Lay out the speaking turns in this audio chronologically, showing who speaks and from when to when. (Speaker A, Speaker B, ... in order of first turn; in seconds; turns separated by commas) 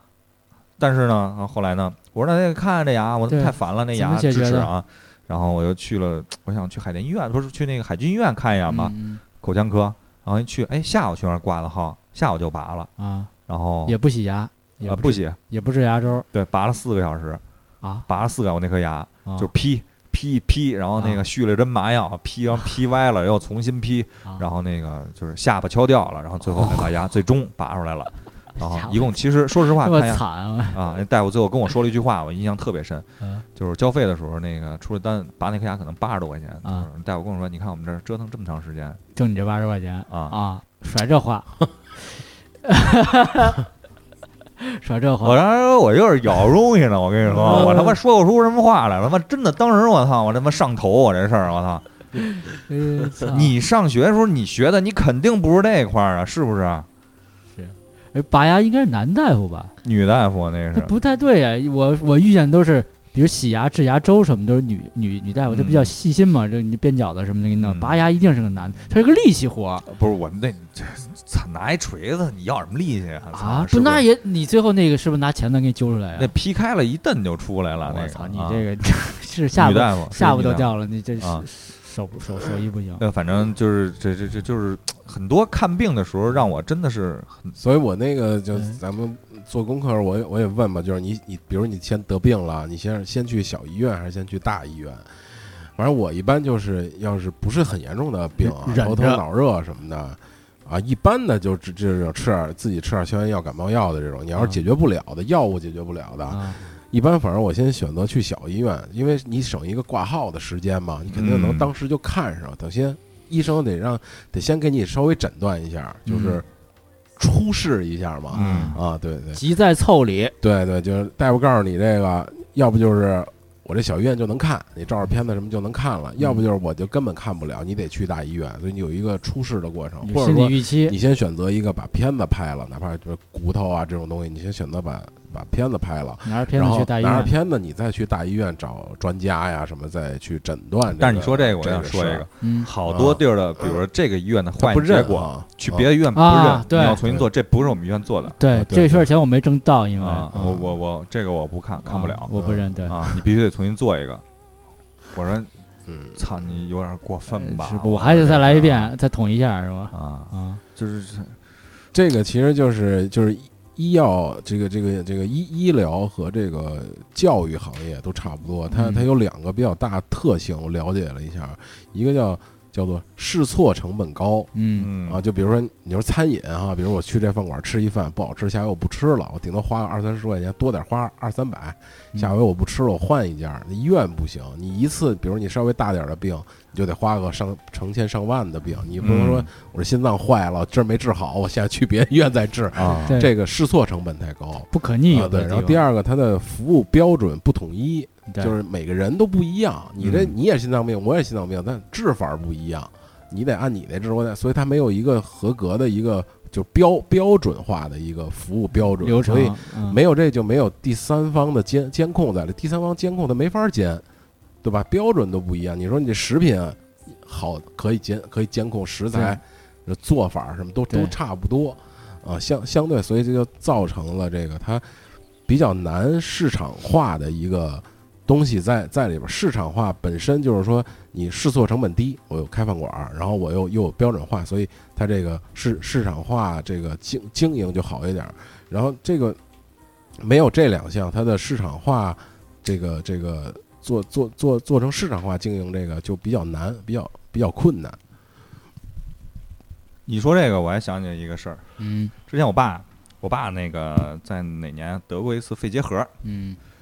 Speaker A: 0.8-12.9, Speaker B: 3.3-4.7, Speaker B: 8.7-9.2, Speaker B: 13.0-13.3, Speaker A: 13.5-14.0, Speaker B: 13.9-16.3, Speaker A: 14.8-15.4, Speaker A: 16.3-17.4, Speaker A: 18.1-39.0, Speaker B: 21.0-21.2, Speaker B: 26.6-26.9, Speaker B: 28.6-30.8, Speaker B: 39.1-43.6, Speaker A: 40.1-40.4, Speaker B: 44.6-45.4, Speaker A: 45.2-51.9, Speaker B: 47.4-48.0, Speaker B: 52.2-53.5, Speaker A: 53.2-56.9, Speaker B: 57.6-59.7, Speaker A: 59.8-60.9, Speaker B: 60.8-69.9, Speaker A: 65.5-65.9, Speaker A: 67.6-68.0, Speaker A: 69.9-74.0, Speaker B: 73.3-76.3, Speaker A: 76.2-78.7, Speaker B: 77.8-83.0, Speaker A: 79.6-81.5, Speaker A: 83.0-87.5, Speaker C: 87.5-116.5, Speaker B: 98.4-99.2, Speaker B: 104.4-104.6, Speaker B: 106.3-106.7, Speaker A: 111.1-111.7, Speaker B: 116.1-116.4, Speaker C: 117.2-119.4, Speaker B: 118.3-118.8, Speaker A: 118.3-118.7, Speaker B: 119.3-120.3, Speaker C: 120.4-142.3, Speaker B: 126.2-126.4, Speaker B: 130.0-130.9, Speaker B: 136.2-137.3, Speaker A: 141.0-148.4, Speaker B: 142.4-142.7, Speaker C: 142.8-143.8, Speaker C: 144.6-145.9, Speaker B: 146.1-147.0, Speaker B: 148.4-150.6, Speaker C: 148.5-149.1, Speaker A: 150.0-152.3, Speaker B: 151.8-152.9, Speaker C: 152.3-153.2, Speaker A: 152.9-154.2, Speaker A: 155.1-155.5, Speaker C: 155.9-156.2, Speaker A: 156.2-158.9, Speaker B: 157.3-160.6, Speaker A: 159.9-161.4, Speaker C: 161.9-174.5, Speaker B: 168.7-169.1, Speaker B: 174.5-174.9, Speaker A: 174.8-175.2, Speaker C: 175.0-214.1, Speaker A: 189.0-189.5, Speaker A: 192.8-193.2, Speaker B: 193.1-193.3, Speaker B: 194.7-195.8, Speaker B: 198.3-198.5, Speaker A: 200.0-200.3, Speaker B: 209.0-210.0, Speaker C: 214.6-239.4, Speaker B: 219.1-219.4, Speaker B: 220.9-221.1, Speaker C: 240.2-248.0, Speaker A: 250.1-251.7, Speaker B: 251.8-252.1, Speaker A: 252.2-256.1, Speaker B: 256.2-256.6